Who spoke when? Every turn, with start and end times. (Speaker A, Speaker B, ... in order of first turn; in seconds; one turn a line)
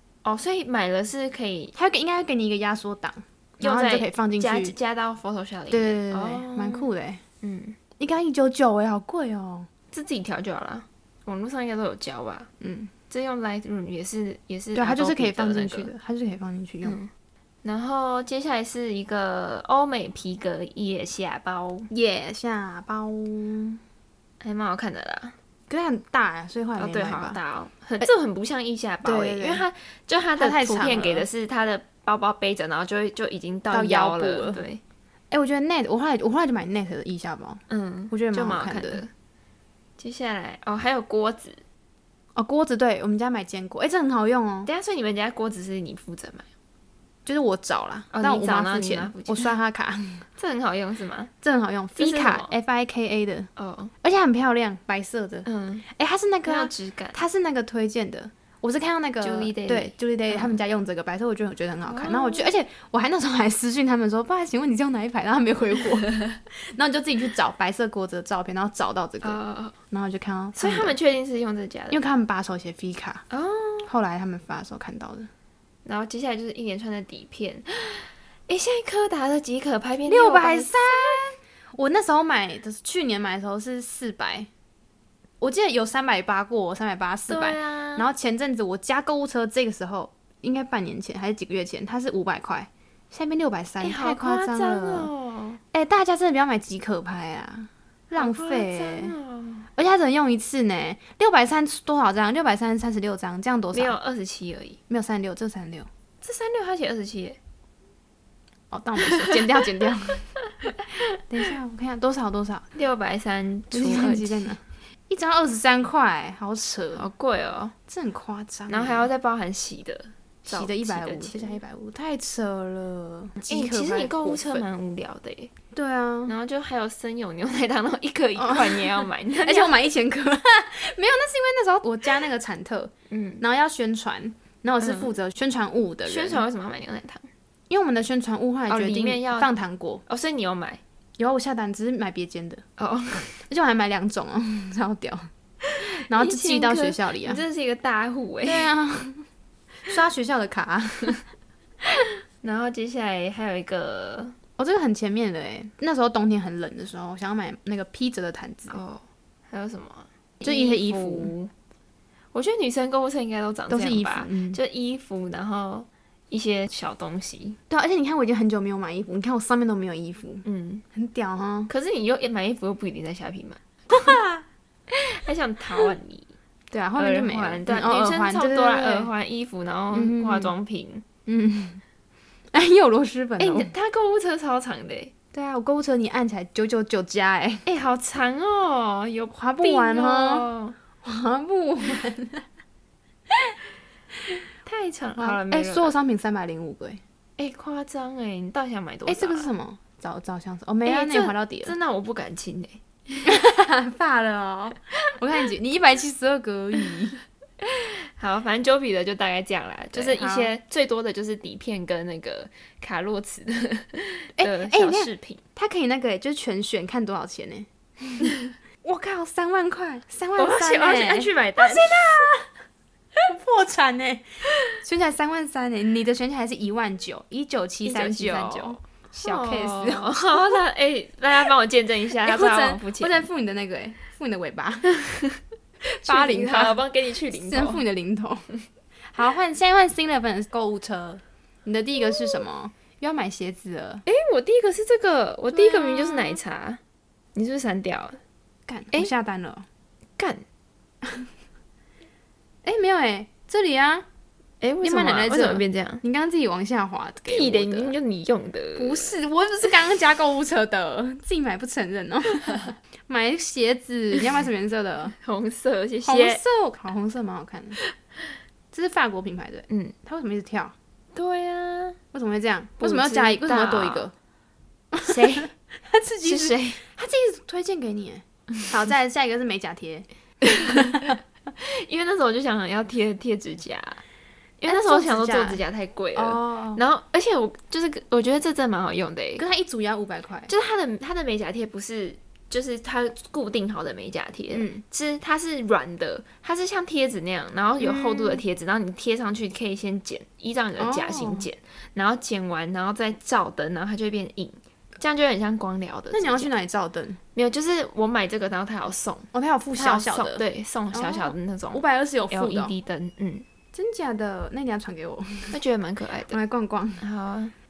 Speaker A: 0.2-1.7
Speaker B: 1.8-4.8
Speaker A: 3.6-6.9
Speaker B: 5.7-7.2
Speaker A: 7.4-7.8
Speaker B: 8.0-9.7
Speaker A: 9.9-12.5
Speaker B: 12.6-12.9
Speaker A: 13.1-15.9
Speaker B: 14.7-17.0
Speaker A: 16.8-17.1
Speaker A: 17.6-21.9
Speaker B: 21.9-23.8
Speaker A: 24.4-25.4
Speaker B: 25.7-27.4
Speaker A: 26.8-34.8
Speaker B: 29.0-29.6
Speaker B: 30.4-31.3
Speaker B: 33.7-34.6
Speaker B: 35.3-39.0
Speaker A: 37.7-39.1
Speaker A: 40.0-41.6
Speaker B: 42.4-44.7
Speaker A: 44.7-46.5
Speaker B: 47.3-50.2
Speaker A: 48.1-49.5
Speaker A: 50.4-51.3
Speaker B: 51.4-53.5
Speaker A: 52.0-52.5
Speaker A: 53.6-53.9
Speaker B: 54.0-69.4
Speaker A: 55.5-55.8
Speaker A: 56.5-57.2
Speaker A: 59.2-60.6
Speaker A: 61.9-62.5
Speaker A: 69.2-69.8
Speaker B: 69.9-71.0
Speaker A: 70.6-72.0
Speaker B: 71.9-73.2
Speaker A: 73.3-73.9
Speaker B: 73.9-75.3
Speaker A: 75.8-81.3
Speaker B: 80.1-84.5
Speaker B: 85.4-95.1
Speaker A: 87.3-88.1
Speaker A: 93.8-95.6
Speaker B: 95.7-99.2
Speaker A: 98.1-99.7
Speaker B: 99.8-104.0
Speaker A: 103.7-104.8
Speaker B: 104.9-105.9
Speaker A: 106.2-107.4
Speaker B: 108.7-110.3
Speaker B: 111.2-112.7
Speaker A: 112.8-114.5
Speaker B: 113.7-117.1
Speaker A: 117.0-117.8
Speaker B: 117.9-119.1
Speaker A: 118.7-121.6
Speaker B: 120.5-124.7
Speaker A: 123.5-125.5
Speaker B: 125.7-126.3
Speaker A: 126.3-129.8
Speaker B: 128.4-136.4
Speaker A: 133.1-133.4
Speaker A: 134.8-135.1
Speaker A: 136.1-137.3
Speaker B: 137.7-140.0
Speaker A: 138.7-139.5
Speaker A: 140.1-140.8
Speaker B: 141.2-142.6
Speaker A: 142.8-143.4
Speaker B: 143.5-145.3
Speaker A: 145.7-148.7
Speaker B: 145.8-147.4
Speaker B: 148.4-149.3
Speaker B: 149.9-151.2
Speaker A: 152.4-154.3
Speaker B: 154.6-158.8
Speaker A: 158.7-161.5
Speaker B: 160.4-161.3
Speaker A: 162.3-167.6
Speaker B: 163.7-164.6
Speaker B: 167.7-171.7
Speaker A: 170.4-170.8
Speaker A: 171.7-174.1
Speaker B: 173.9-174.4
Speaker A: 174.9-176.3
Speaker B: 176.7-179.1
Speaker A: 177.0-181.1
Speaker B: 179.9-180.5
Speaker B: 181.3-181.8
Speaker B: 182.5-183.7
Speaker A: 183.4-185.1
Speaker B: 185.3-187.7
Speaker A: 187.7-190.8
Speaker B: 189.3-190.5
Speaker B: 191.0-192.4
Speaker A: 194.6-195.9
Speaker B: 195.1-197.0
Speaker A: 197.4-199.5
Speaker B: 199.1-201.7
Speaker A: 200.8-203.3
Speaker B: 203.2-207.2
Speaker A: 207.6-215.4
Speaker B: 209.9-210.5
Speaker B: 214.4-218.3
Speaker B: 218.8-222.5
Speaker A: 220.4-222.2
Speaker B: 223.2-230.6
Speaker A: 227.8-233.3
Speaker B: 232.2-235.0
Speaker A: 235.0-235.4
Speaker A: 236.0-237.8
Speaker B: 236.0-238.5
Speaker B: 239.1-244.0
Speaker A: 244.1-246.8
Speaker B: 245.5-246.4
Speaker A: 247.3-248.2
Speaker B: 248.7-249.7
Speaker A: 250.2-250.4
Speaker B: 252.7-254.1
Speaker A: 254.6-256.0
Speaker B: 254.8-257.9
Speaker A: 257.3-259.1
Speaker B: 258.8-265.1
Speaker A: 265.2-266.4
Speaker B: 266.0-267.8
Speaker B: 268.7-270.7
Speaker A: 269.7-269.9
Speaker A: 271.1-272.0
Speaker B: 272.1-274.1
Speaker A: 272.8-274.1
Speaker B: 274.9-281.2
Speaker A: 275.0-275.5
Speaker A: 276.2-276.8
Speaker A: 280.5-281.0
Speaker A: 281.6-284.0
Speaker A: 284.6-289.4
Speaker B: 284.7-285.6
Speaker B: 286.1-286.8
Speaker B: 289.4-290.5
Speaker A: 290.5-306.5
Speaker B: 294.5-294.8
Speaker B: 297.8-298.4
Speaker B: 300.8-301.5
Speaker B: 306.1-307.2
Speaker A: 307.4-313.5
Speaker B: 309.3-312.7
Speaker B: 313.7-315.6
Speaker A: 315.5-316.4
Speaker B: 316.3-317.0
Speaker A: 317.0-317.5